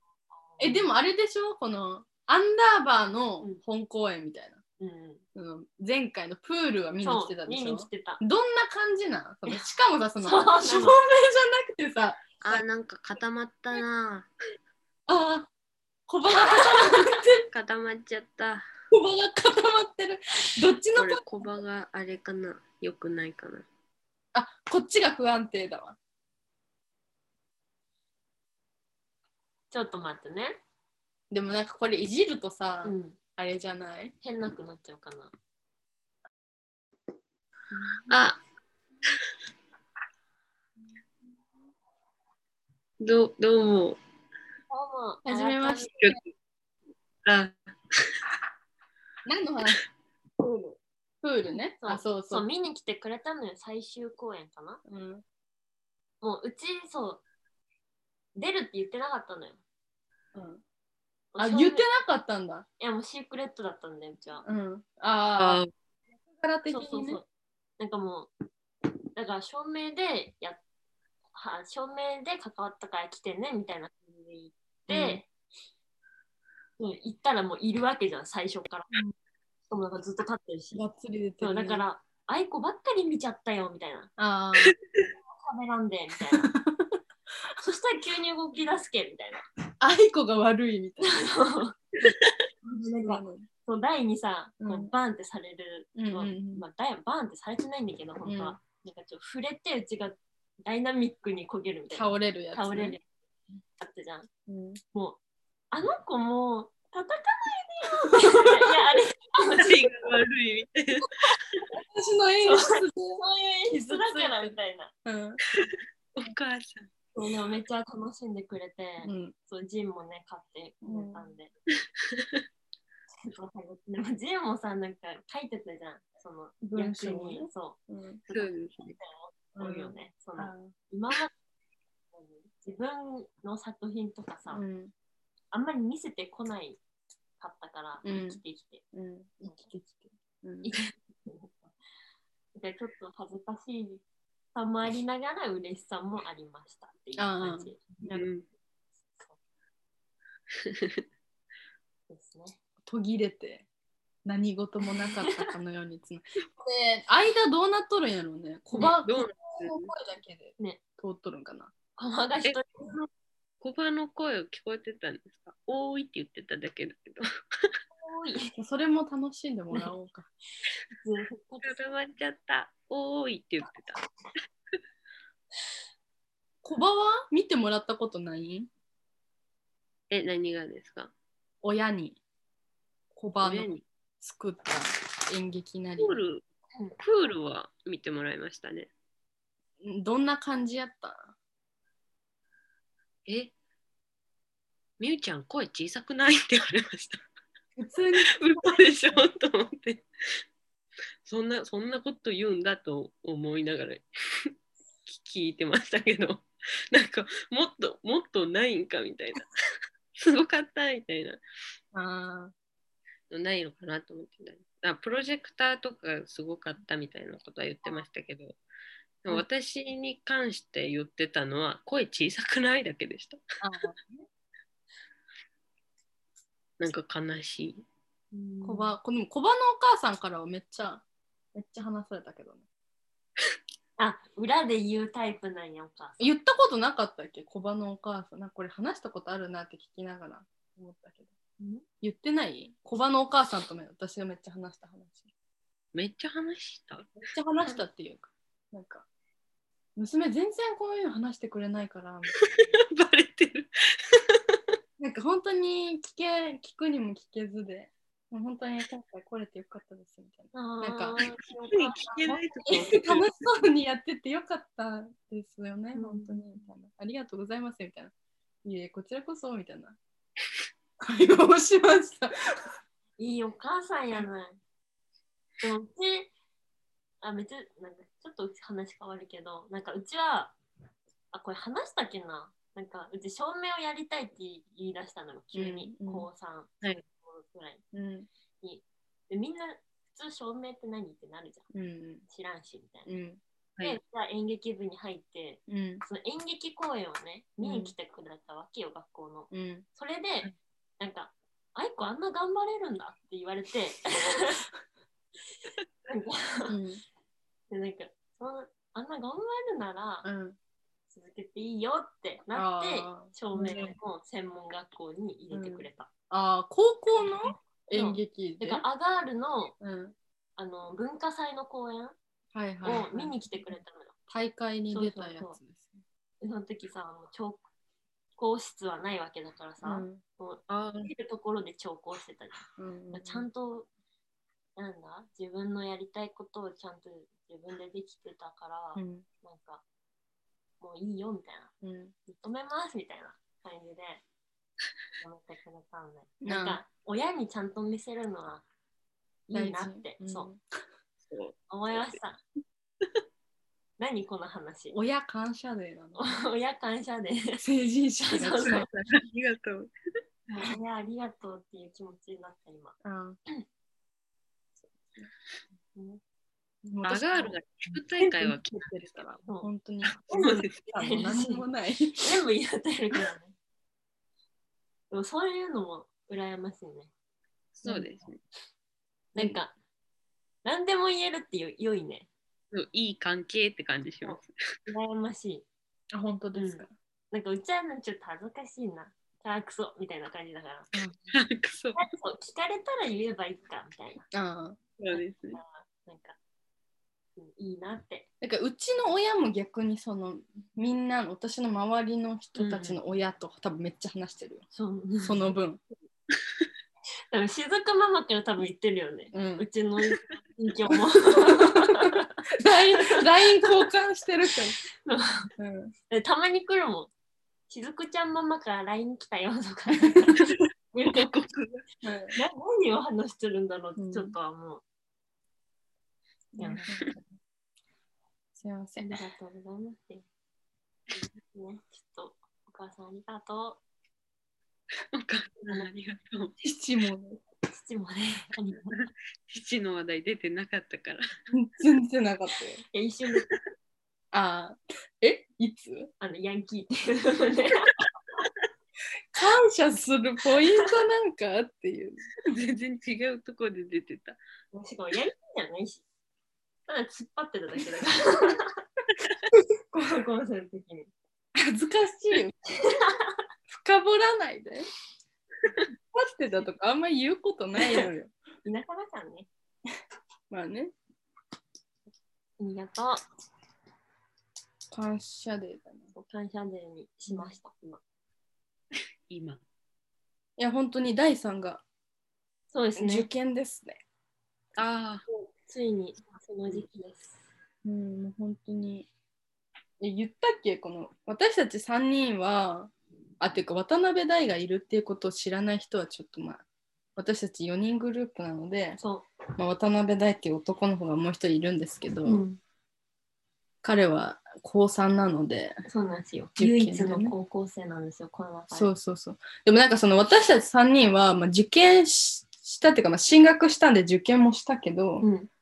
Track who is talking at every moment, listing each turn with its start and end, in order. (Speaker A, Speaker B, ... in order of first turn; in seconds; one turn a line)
Speaker A: 0.4-0.9
Speaker B: 0.6-4.6
Speaker A: 4.8-5.2
Speaker B: 5.3-12.6
Speaker A: 7.0-8.2
Speaker A: 10.2-11.0
Speaker C: 12.4-14.3
Speaker B: 15.1-15.5
Speaker B: 16.1-17.4
Speaker C: 17.5-18.7
Speaker B: 18.9-21.2
Speaker C: 21.0-23.7
Speaker B: 24.3-26.0
Speaker A: 29.7-30.6
Speaker B: 31.3-34.1
Speaker A: 32.8-33.2
Speaker A: 34.2-35.3
Speaker B: 37.7-38.2
Speaker C: 38.1-38.4
Speaker C: 43.0-44.0
Speaker A: 44.7-45.9
Speaker B: 45.2-46.2
Speaker C: 47.2-48.2
Speaker B: 49.2-49.8
Speaker B: 51.2-52.4
Speaker A: 51.8-54.8
Speaker B: 54.9-55.2
Speaker A: 56.2-57.2
Speaker A: 58.4-59.6
Speaker B: 60.4-60.6
Speaker A: 61.3-61.9
Speaker B: 61.4-62.7
Speaker A: 62.8-64.5
Speaker B: 64.4-65.6
Speaker C: 65.4-65.7
Speaker B: 66.3-67.2
Speaker A: 66.7-67.3
Speaker A: 67.8-68.3
Speaker A: 69.2-70.6
Speaker A: 71.3-75.2
Speaker B: 74.9-75.2
Speaker A: 76.8-78.9
Speaker A: 79.7-80.8
Speaker B: 80.8-81.8
Speaker A: 81.4-84.1
Speaker B: 84.2-84.8
Speaker A: 85.4-86.5
Speaker B: 86.5-87.0
Speaker A: 87.6-89.4
Speaker B: 89.8-91.4
Speaker A: 91.0-91.8
Speaker B: 92.0-93.5
Speaker A: 92.9-103.0
Speaker B: 94.6-94.9
Speaker B: 96.0-96.7
Speaker B: 98.2-98.6
Speaker B: 101.9-103.0
Speaker A: 103.8-104.3
Speaker B: 104.5-104.8
Speaker A: 104.9-105.2
Speaker A: 105.7-109.8
Speaker B: 108.0-108.5
Speaker C: 109.6-111.2
Speaker B: 111.8-115.4
Speaker A: 112.4-114.9
Speaker C: 115.6-116.9
Speaker A: 117.2-121.5
Speaker B: 119.0-119.3
Speaker B: 120.8-121.3
Speaker C: 122.1-122.4
Speaker A: 123.2-131.3
Speaker B: 126.6-128.2
Speaker C: 128.3-128.9
Speaker B: 129.6-130.7
Speaker A: 132.1-134.6
Speaker B: 134.5-134.9
Speaker A: 135.5-136.8
Speaker A: 137.4-138.8
Speaker B: 138.0-138.4
Speaker B: 138.9-140.7
Speaker A: 140.6-141.6
Speaker A: 142.6-144.0
Speaker A: 144.6-147.8
Speaker B: 147.2-148.2
Speaker C: 148.1-148.4
Speaker A: 149.1-149.4
Speaker C: 150.6-151.0
Speaker A: 152.1-152.6
Speaker B: 152.8-153.7
Speaker B: 154.2-161.7
Speaker A: 155.0-155.4
Speaker C: 159.0-159.9
Speaker A: 162.0-162.9
Speaker C: 162.4-163.1
Speaker C: 163.6-167.8
Speaker A: 168.0-168.6
Speaker B: 168.6-170.3
Speaker A: 170.9-171.8
Speaker C: 171.6-174.0
Speaker B: 176.6-178.7
Speaker C: 180.1-181.1
Speaker B: 181.6-182.2
Speaker B: 183.1-183.7
Speaker C: 183.4-183.8
Speaker B: 184.2-186.2
Speaker C: 186.0-186.4
Speaker C: 187.0-188.9
Speaker B: 189.8-191.3
Speaker C: 193.3-193.5
Speaker C: 195.0-197.2
Speaker B: 197.8-198.8
Speaker C: 198.3-200.1
Speaker C: 201.2-204.5
Speaker C: 205.1-209.5
Speaker C: 210.2-211.4
Speaker B: 211.9-212.5
Speaker C: 213.3-218.6
Speaker C: 219.2-223.4
Speaker B: 223.6-224.3
Speaker C: 226.8-227.8
Speaker A: 228.3-228.9
Speaker B: 228.6-231.0
Speaker B: 231.6-232.6
Speaker A: 234.0-236.2
Speaker B: 236.2-241.3
Speaker A: 241.6-241.8
Speaker B: 242.0-245.3
Speaker C: 245.9-247.1
Speaker B: 247.2-249.1
Speaker B: 250.0-252.4
Speaker C: 252.4-254.6
Speaker B: 255.0-261.2
Speaker A: 260.5-262.8
Speaker C: 261.7-263.3
Speaker B: 262.2-268.1
Speaker A: 265.9-266.7
Speaker B: 268.6-270.0
Speaker B: 271.0-272.3
Speaker A: 273.2-274.6
Speaker A: 275.6-276.3
Speaker A: 277.2-280.6
Speaker A: 281.3-287.8
Speaker B: 285.5-286.3
Speaker B: 287.9-288.3
Speaker A: 288.6-291.7
Speaker B: 291.7-292.2
Speaker A: 292.3-293.1
Speaker B: 293.1-293.4
Speaker A: 293.8-304.6
Speaker B: 295.7-296.0
Speaker B: 297.6-297.9
Speaker B: 299.5-299.9
Speaker A: 306.1-306.8
Speaker B: 306.7-307.0
Speaker A: 307.7-310.3
Speaker B: 310.2-310.6
Speaker A: 311.1-316.1
Speaker B: 312.6-313.9
Speaker B: 315.5-318.8
Speaker A: 317.2-319.8
Speaker B: 319.8-320.1
Speaker A: 320.6-322.2
Speaker B: 322.5-323.4
Speaker A: 322.8-324.1
Speaker B: 324.3-326.0
Speaker A: 324.9-325.6
Speaker A: 326.4-327.6
Speaker A: 328.4-333.9
Speaker B: 329.8-330.2
Speaker B: 332.8-333.5
Speaker A: 334.8-339.8
Speaker B: 339.0-339.2
Speaker A: 340.8-341.7
Speaker B: 341.8-342.1
Speaker A: 342.3-344.2
Speaker A: 345.2-348.6
Speaker B: 346.4-346.8
Speaker A: 349.5-350.5
Speaker B: 349.5-350.6
Speaker A: 351.7-352.4
Speaker A: 354.0-355.0
Speaker B: 354.9-356.4
Speaker A: 356.2-357.6
Speaker B: 357.6-359.2
Speaker A: 358.2-358.9
Speaker C: 359.2-359.9
Speaker A: 360.5-363.0
Speaker B: 363.0-363.4
Speaker A: 365.9-366.2
Speaker B: 366.9-372.3
Speaker C: 367.0-369.1
Speaker C: 370.1-370.8
Speaker A: 370.3-371.6
Speaker A: 372.2-373.6
Speaker A: 375.1-377.1
Speaker C: 377.8-378.4
Speaker A: 379.3-379.7
Speaker A: 380.6-382.3
Speaker C: 382.7-384.5
Speaker A: 384.2-385.6
Speaker B: 386.1-386.9
Speaker A: 386.5-390.9
Speaker B: 390.9-391.3
Speaker C: 391.3-392.1
Speaker A: 392.0-394.3
Speaker B: 394.3-394.8
Speaker C: 395.0-395.6
Speaker A: 395.1-396.4
Speaker A: 397.4-398.3
Speaker B: 398.4-404.6
Speaker A: 402.6-403.0
Speaker A: 404.7-405.5
Speaker B: 405.2-405.8
Speaker A: 407.3-412.3
Speaker B: 409.3-409.7
Speaker B: 410.9-414.8
Speaker A: 413.0-413.2
Speaker A: 415.0-415.5
Speaker B: 415.6-415.9
Speaker A: 416.1-417.1
Speaker A: 417.7-421.3
Speaker B: 420.0-420.5
Speaker C: 421.1-421.8
Speaker B: 422.0-422.4
Speaker A: 422.3-424.8
Speaker B: 424.0-424.4
Speaker B: 426.6-427.3
Speaker A: 426.6-426.9
Speaker B: 428.6-429.2
Speaker A: 429.0-430.2
Speaker A: 431.2-433.8
Speaker C: 435.1-436.6
Speaker B: 436.6-437.4
Speaker A: 437.7-439.0
Speaker C: 439.5-441.2
Speaker B: 441.5-442.8
Speaker A: 442.9-443.5
Speaker B: 444.3-446.1
Speaker A: 446.2-447.9
Speaker B: 449.3-452.3
Speaker C: 452.4-454.4
Speaker A: 454.7-456.0
Speaker A: 456.9-458.7
Speaker A: 459.9-461.1
Speaker B: 461.6-462.6
Speaker A: 462.8-463.3
Speaker B: 463.7-464.9
Speaker B: 466.1-468.3
Speaker A: 467.8-468.1
Speaker A: 468.6-469.5
Speaker B: 470.5-470.9
Speaker A: 472.6-473.2
Speaker B: 474.9-476.1
Speaker A: 476.1-478.0
Speaker B: 477.3-477.5
Speaker C: 479.3-479.6
Speaker B: 480.6-481.8
Speaker A: 482.7-483.3
Speaker B: 483.0-484.0
Speaker C: 484.8-485.2
Speaker A: 485.3-487.4
Speaker B: 487.8-489.1
Speaker B: 490.0-496.6
Speaker B: 497.2-499.0
Speaker A: 499.0-499.3
Speaker B: 499.6-502.4
Speaker A: 502.2-502.6
Speaker B: 503.8-505.8
Speaker A: 505.9-508.9
Speaker B: 506.6-507.3
Speaker B: 508.7-515.3
Speaker A: 515.2-515.5